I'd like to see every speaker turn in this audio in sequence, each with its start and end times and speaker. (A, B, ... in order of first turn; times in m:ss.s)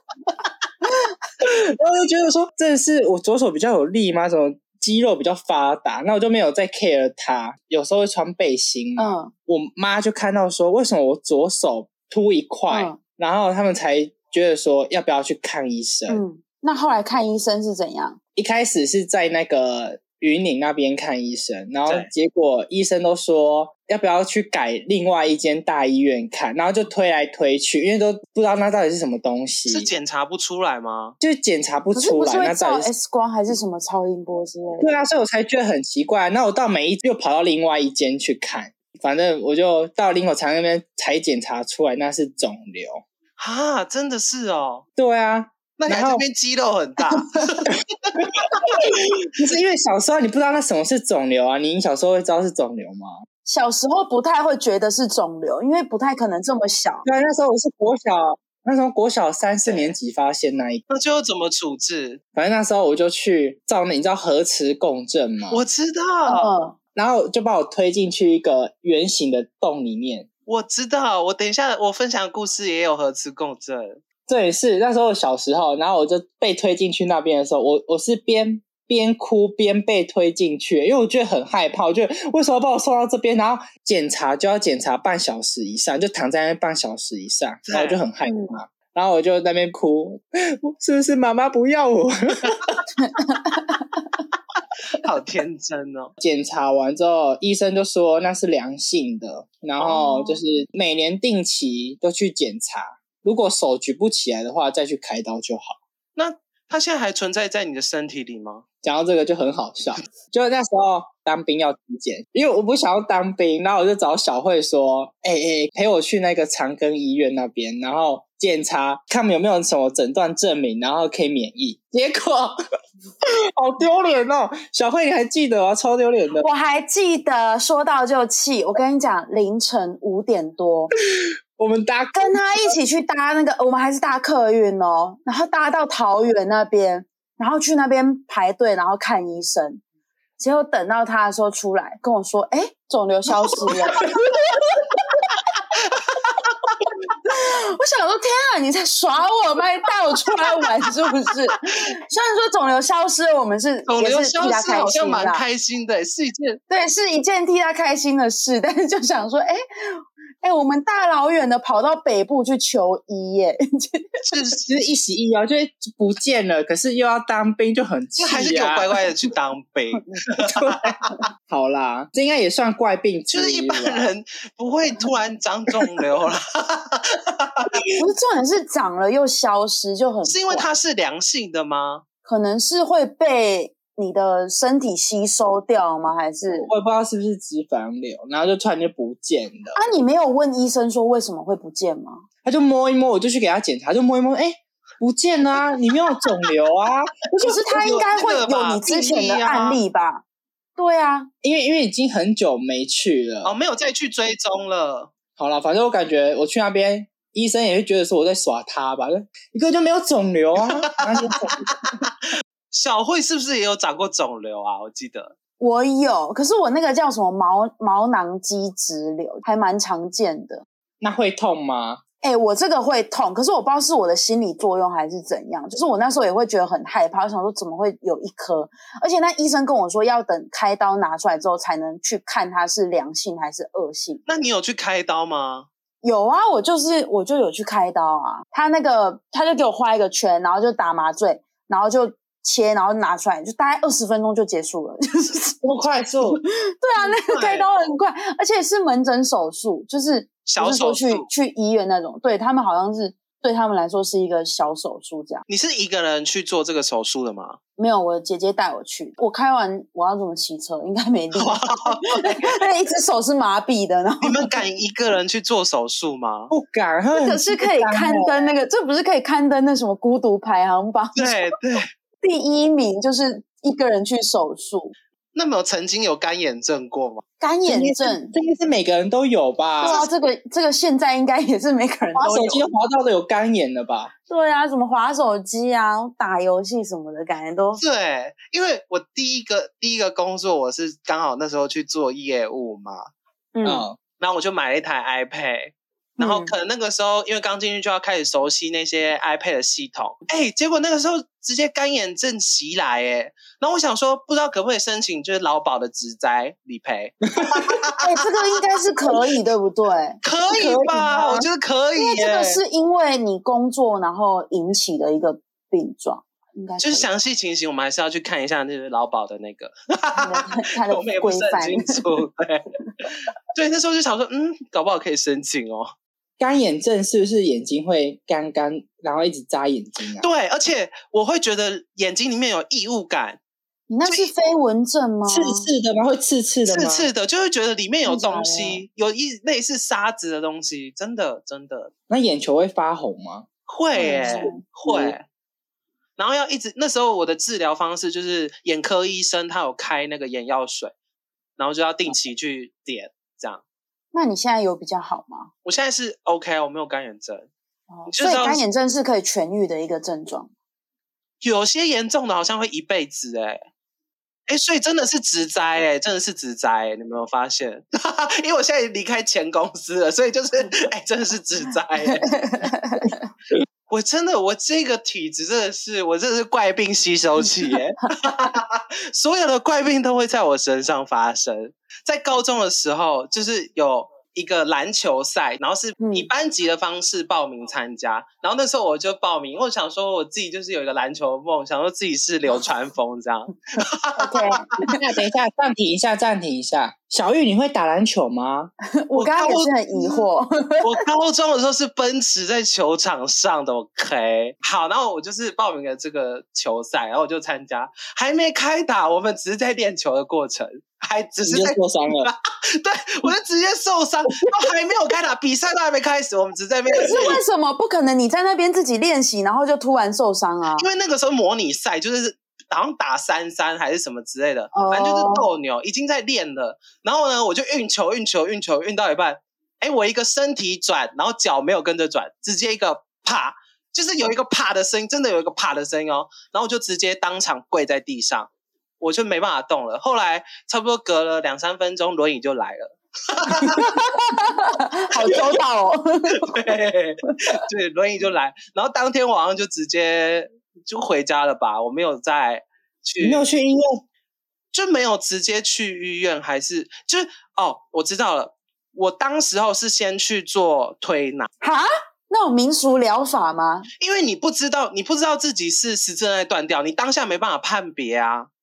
0:01.4-0:16.2 A
0:09.0-0:09.3 B
0:12.7-0:13.0 B
0:16.1-0:18.2 B
0:18.4-0:29.9 A
0:21.8-0:22.1 C
0:29.7-0:31.2 C
0:31.2-0:32.9 A
0:31.9-0:34.9 B
0:34.8-0:43.0 A
0:43.4-0:44.8 C
0:45.0-0:46.2 A
0:45.8-0:48.1 C
0:47.7-0:53.2 A
0:53.4-0:57.0 B
0:57.0-1:00.8 A
0:59.6-1:00.0 C
1:00.9-1:02.2 C
1:02.3-1:05.6 A
1:05.5-1:06.5 C
1:06.3-1:06.8 B
1:06.9-1:10.3 A
1:10.5-1:14.0 C
1:14.3-1:32.8 A
1:27.7-1:28.0 C
1:28.3-1:28.5 B
1:33.0-1:34.0 B
1:34.9-1:36.1 C
1:36.2-1:45.8 A
1:39.8-1:40.4 B
1:46.2-1:48.6 C
1:48.8-2:02.6 A
2:03.2-2:06.4 A
2:06.4-2:10.9 B
2:11.2-2:12.7 A
2:12.1-2:19.8 B
2:20.4-2:25.2 B
2:23.7-2:24.0 A
2:27.2-2:35.4 B
2:33.9-2:36.6 C
2:36.7-2:44.2 B
2:44.3-2:44.6 C
2:44.6-2:49.0 A
2:48.2-2:51.1 C
2:50.5-2:50.8 A
2:51.5-2:54.1 A
2:53.3-2:57.7 C
2:58.0-3:00.6 B
3:00.2-3:02.0 C
3:02.2-3:06.7 B
3:06.6-3:09.8 A
3:09.7-3:12.2 B
3:12.4-3:17.6 A
3:17.4-3:20.2 B
3:17.7-3:19.8 C
3:20.8-3:21.3 B
3:21.4-3:23.5 A
3:23.4-3:25.1 C
3:25.4-3:31.7 A
3:31.0-3:31.7 C
3:32.7-3:35.3 C
3:35.6-3:40.6 B
3:41.0-3:42.0 A
3:42.2-3:54.2 B
3:54.2-3:55.7 C
3:56.0-4:05.6 B
4:05.6-4:06.4 A
4:06.8-4:15.4 B
4:07.0-4:07.7 C
4:10.5-4:11.3 C
4:15.5-4:17.6 C
4:17.8-4:24.5 B
4:21.3-4:22.5 C
4:24.2-4:26.5 C
4:26.5-4:28.4 A
4:27.1-4:31.5 B
4:31.2-4:31.8 C
4:32.2-4:34.9 B
4:35.3-4:37.2 C
4:37.4-4:38.3 B
4:37.7-4:40.0 A
4:39.8-4:42.6 B
4:39.8-4:40.1 C
4:42.1-4:44.1 A
4:44.3-4:47.8 B
4:47.8-4:53.0 C
4:53.5-4:53.8 B
4:53.6-4:54.0 A
4:54.2-5:08.2 C
4:56.2-4:56.5 B
5:08.0-5:11.4 B
5:10.2-5:12.6 C
5:12.0-5:17.1 B
5:16.8-5:25.9 C
5:20.2-5:22.1 B
5:26.4-5:30.3 A
5:30.2-5:33.4 C
5:33.9-5:35.7 B
5:35.3-5:37.1 A
5:36.7-5:41.9 C
5:38.0-5:38.8 B
5:42.1-5:43.5 A
5:43.7-5:45.2 C
5:44.0-5:44.6 B
5:44.2-5:45.2 A
5:46.2-5:50.9 C
5:51.6-5:53.6 C
5:54.1-5:55.5 B
5:55.6-5:57.5 C
5:57.9-6:00.5 B
5:58.1-5:58.6 C
6:01.4-6:03.6 C
6:04.5-6:12.2 C
6:12.1-6:13.3 B
6:13.9-6:34.6 C
6:26.0-6:26.3 B
6:34.2-6:34.9 B
6:34.8-6:38.7 A
6:39.0-6:40.9 B
6:39.2-6:40.3 C
6:40.8-6:57.4 C
6:51.5-6:52.3 A
6:56.9-7:00.8 B
7:00.8-7:24.0 C
7:04.7-7:05.5 B
7:23.7-7:26.6 B
7:25.2-7:25.4 C
7:26.4-7:33.5 C
7:33.2-7:34.0 A
7:34.7-7:41.5 C
7:41.6-7:43.9 B
7:44.0-7:48.5 C